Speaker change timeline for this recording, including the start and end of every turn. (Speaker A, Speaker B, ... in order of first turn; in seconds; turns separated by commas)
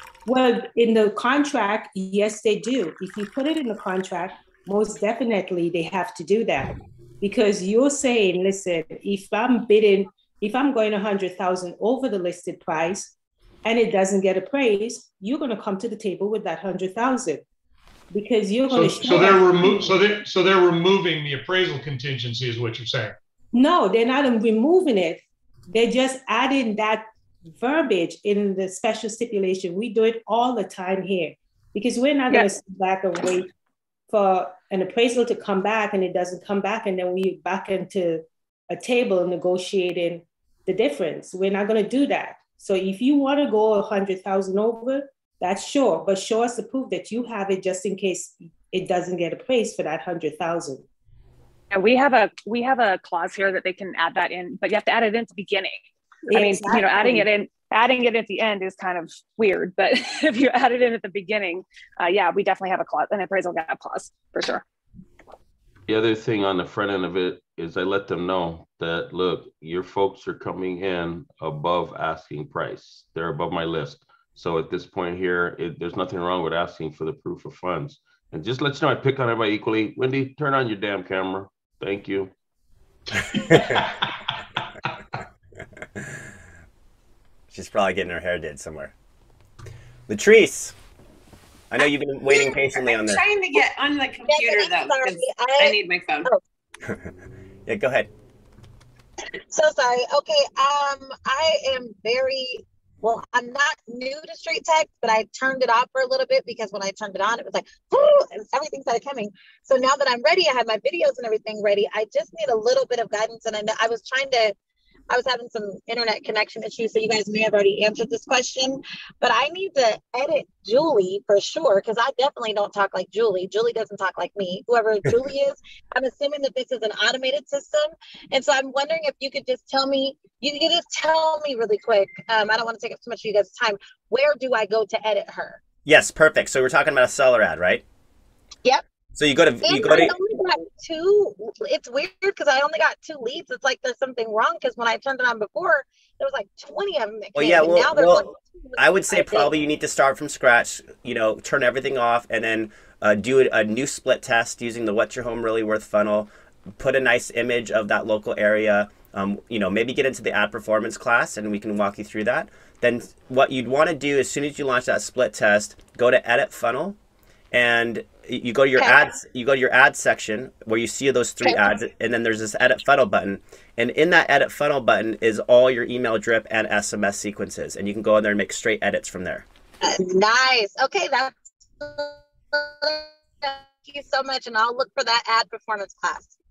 Speaker A: 0.2-13.1, Speaker A: 13.6-17.4, Speaker A: 18.1-20.0, Speaker B: 18.7-23.1, Speaker A: 23.5-33.5, Speaker A: 34.1-50.8, Speaker C: 51.7-64.6, Speaker A: 56.3-57.3, Speaker D: 65.9-82.3, Speaker B: 83.3-84.1, Speaker E: 83.4-83.8, Speaker E: 87.5-88.9, Speaker E: 90.1-90.7, Speaker E: 91.7-93.2, Speaker F: 92.7-96.3, Speaker G: 94.3-96.4, Speaker E: 97.7-98.1, Speaker G: 99.5-114.5, Speaker G: 115.1-135.6, Speaker E: 135.8-137.8, Speaker E: 139.2-140.1, Speaker G: 139.6-149.5, Speaker E: 147.3-167.0, Speaker E: 167.5-179.4, Speaker G: 179.8-186.3